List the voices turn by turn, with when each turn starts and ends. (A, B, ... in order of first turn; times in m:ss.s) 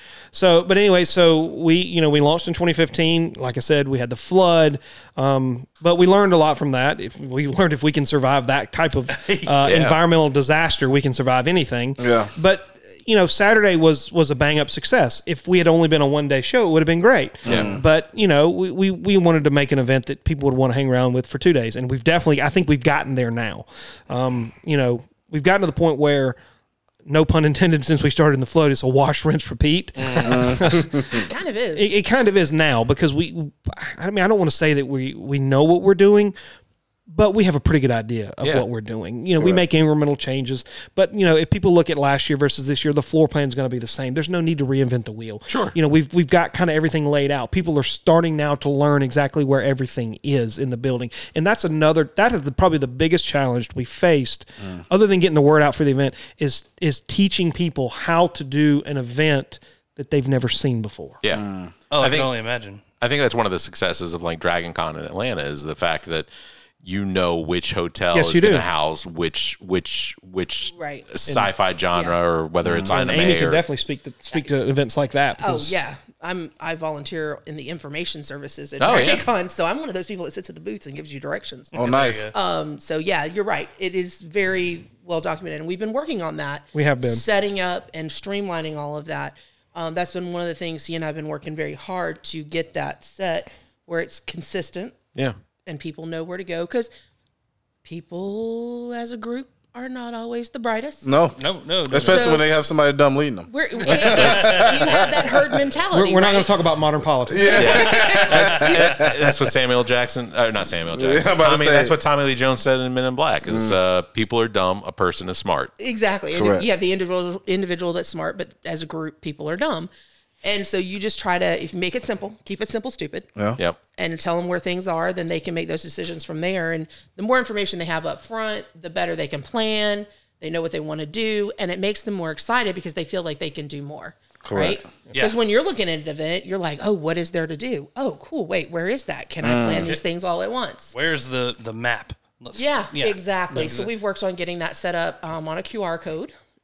0:00.3-0:26.4 A
0:09.1-0:09.6 B
0:09.6-0:10.0 C
0:12.0-0:12.3 D
0:17.4-0:17.8 D
0:17.4-0:17.7 C
0:27.0-0:31.0 A
0:30.0-0:30.4 B
0:30.2-0:31.2 D
0:31.1-0:31.9 E
0:31.7-0:36.3 A
0:37.1-1:01.2 A
0:39.4-0:39.6 D
0:45.5-0:45.7 C
1:01.3-1:01.7 D
1:01.9-1:02.8 B
1:02.0-1:02.3 C
1:03.0-1:06.3 C
1:06.8-1:13.6 C
1:08.1-1:08.6 A
1:10.7-1:11.1 E
1:12.6-1:12.9 D
1:12.9-1:15.8 A
1:15.4-1:21.8 E
1:18.8-1:19.3 C
1:21.7-1:22.3 B
1:21.8-1:22.3 D
1:22.3-1:35.0 E
1:26.7-1:27.2 A
1:35.6-1:36.9 E
1:37.8-1:41.1 E
1:41.0-1:45.4 D
1:41.4-1:42.4 B
1:42.0-1:42.4 E
1:43.5-1:46.5 E
1:43.9-1:44.9 B
1:45.9-1:47.6 A
1:47.3-1:49.1 D
1:47.4-1:48.6 E
1:47.5-1:55.7 C
1:47.6-1:49.0 B
1:50.9-1:51.9 D
1:53.5-1:53.8 D
1:55.8-1:59.9 E
1:56.3-1:56.6 D
2:00.4-2:03.3 E
2:04.0-2:20.9 E
2:14.4-2:14.8 D
2:19.4-2:19.9 D
2:20.9-2:23.9 B
2:22.5-2:26.3 E